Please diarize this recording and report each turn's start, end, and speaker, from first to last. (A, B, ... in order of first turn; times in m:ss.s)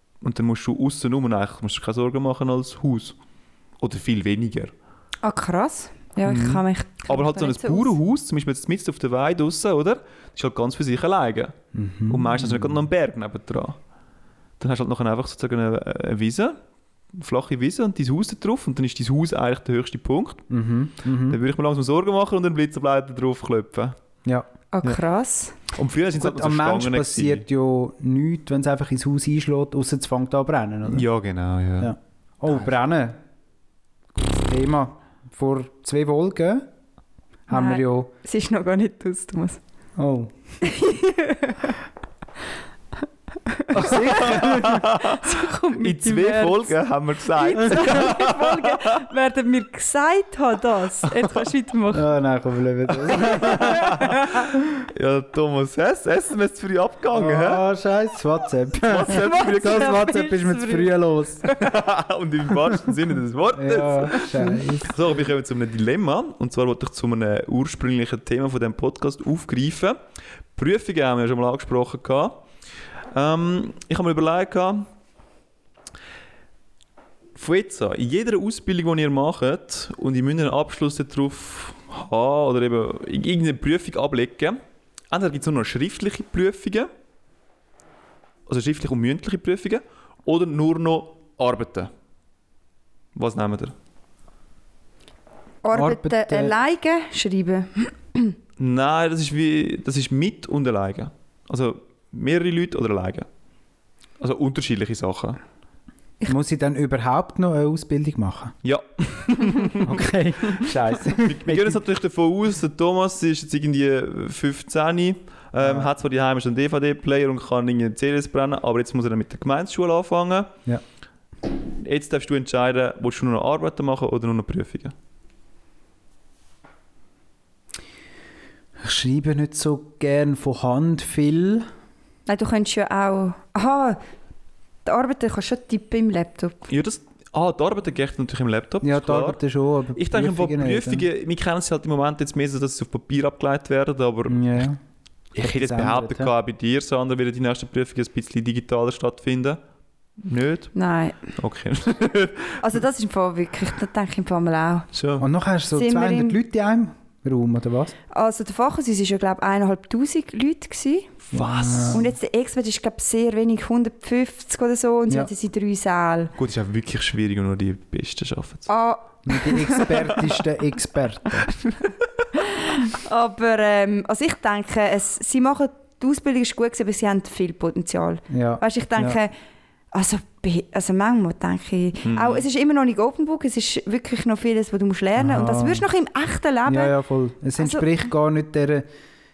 0:00.2-0:03.2 A
0:03.8-0:04.7 A
0:05.2-0:08.0 B
0:06.3-0:11.6 A
0:11.7-0:12.8 C
0:12.1-0:13.8 A
0:14.6-0:16.6 A
0:17.1-0:20.4 A
0:20.5-0:21.4 C
0:21.3-0:24.0 A
0:24.7-0:25.6 B
0:25.7-0:27.4 A
0:26.2-0:31.1 C
0:30.9-0:31.9 A
0:31.8-0:33.2 C
0:34.2-0:36.7 C
0:37.5-0:38.1 C
0:37.5-0:39.6 B
0:40.0-0:40.3 C
0:40.6-0:41.8 B
0:43.5-0:46.8 B
0:43.7-0:44.9 C
0:43.8-0:48.8 A
0:47.4-0:52.1 B
0:51.9-0:54.1 C
0:53.1-0:54.2 A
0:53.5-0:54.4 B
0:54.7-0:57.6 A
0:57.1-1:01.6 C
0:58.8-1:00.1 A
0:59.1-1:00.9 B
1:01.6-1:10.0 A
1:03.5-1:05.0 C
1:10.6-1:12.4 A
1:13.1-1:14.9 A
1:17.4-1:24.6 A
1:25.1-1:26.9 A
1:28.5-1:31.9 A
1:33.2-1:33.8 A
1:35.6-1:38.4 B
1:35.7-1:36.6 C
1:38.6-1:43.3 A
1:44.2-1:45.4 A
1:46.3-1:48.5 C
1:48.6-1:50.0 A
1:49.8-1:51.8 C
1:51.2-2:00.6 A
1:55.6-1:55.9 C
2:01.7-2:04.9 A
2:08.8-2:11.7 C
2:12.3-2:14.0 B
2:14.9-2:16.7 B
2:16.7-2:19.4 A
2:18.8-2:21.1 C
2:20.0-2:24.7 A
2:24.3-2:24.8 C
2:25.3-2:29.6 A
2:25.4-2:26.3 C
2:30.2-2:30.7 A
2:30.8-2:31.2 B
2:31.3-2:32.7 A
2:32.6-2:34.9 B
2:34.9-2:35.3 A
2:35.2-2:38.0 C
2:35.7-2:36.4 B
2:38.1-2:41.1 B
2:41.3-2:42.1 A
2:41.3-2:42.1 C
2:41.9-2:46.3 B
2:46.4-2:48.7 A
2:48.7-2:50.0 B
2:49.3-2:51.5 C
2:49.9-2:50.3 A
2:52.4-2:59.3 B
2:58.3-2:59.2 C
2:59.9-3:07.0 B
3:02.0-3:02.4 A
3:05.2-3:05.9 C
3:06.7-3:08.9 C
3:07.6-3:07.9 B